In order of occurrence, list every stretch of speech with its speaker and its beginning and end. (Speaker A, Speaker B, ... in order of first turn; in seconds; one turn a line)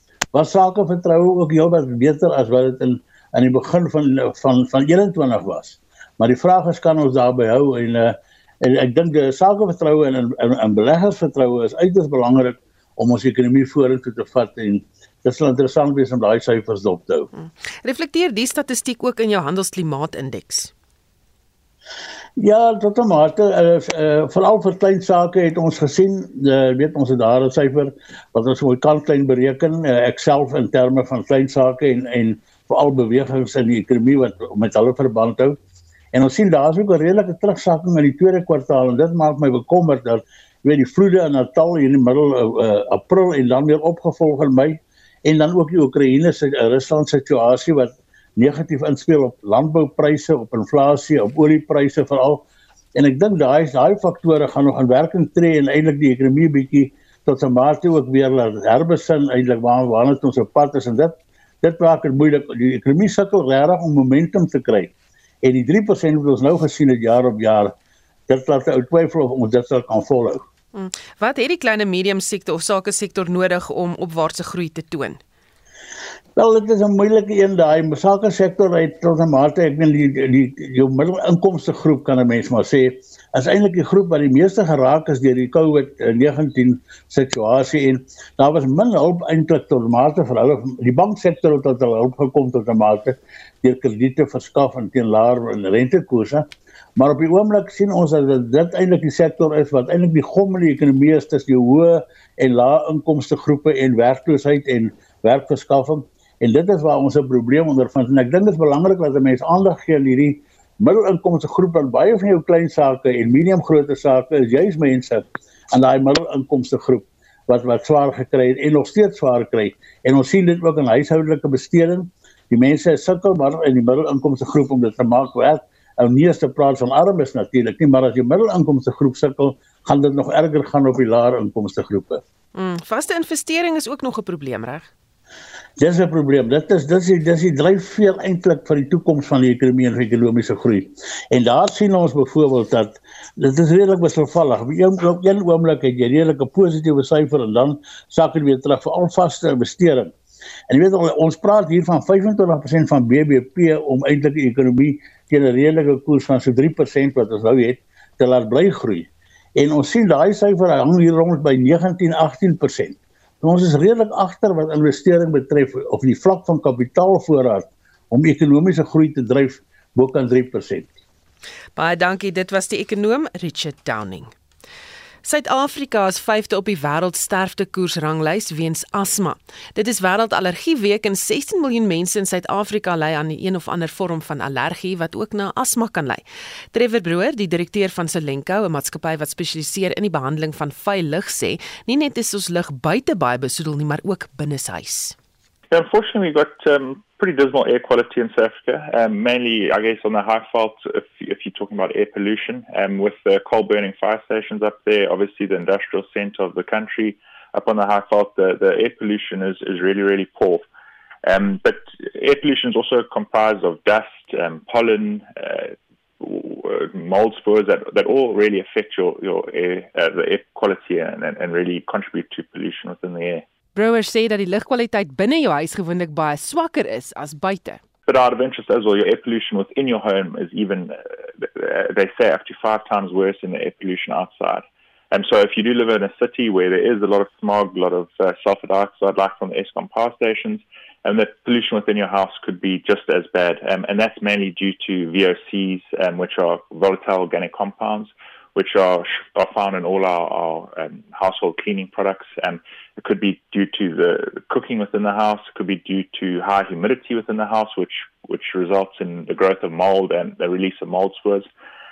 Speaker A: 0.3-17.3
Speaker B: 17.4-20.7
Speaker A: 22.4-35.6
Speaker A: 36.1-52.4
Speaker A: 53.0-67.7
Speaker A: 68.3-70.4
Speaker B: 70.7-75.2
Speaker A: 76.3-96.5
Speaker A: 97.0-132.2
Speaker B: 132.5-134.9
Speaker A: 135.8-150.1
Speaker A: 150.7-170.9
Speaker B: 171.8-174.3
Speaker B: 175.2-195.1
Speaker C: 195.7-210.6
Speaker C: 211.2-223.4
Speaker B: 223.7-227.8
Speaker C: 228.1-261.5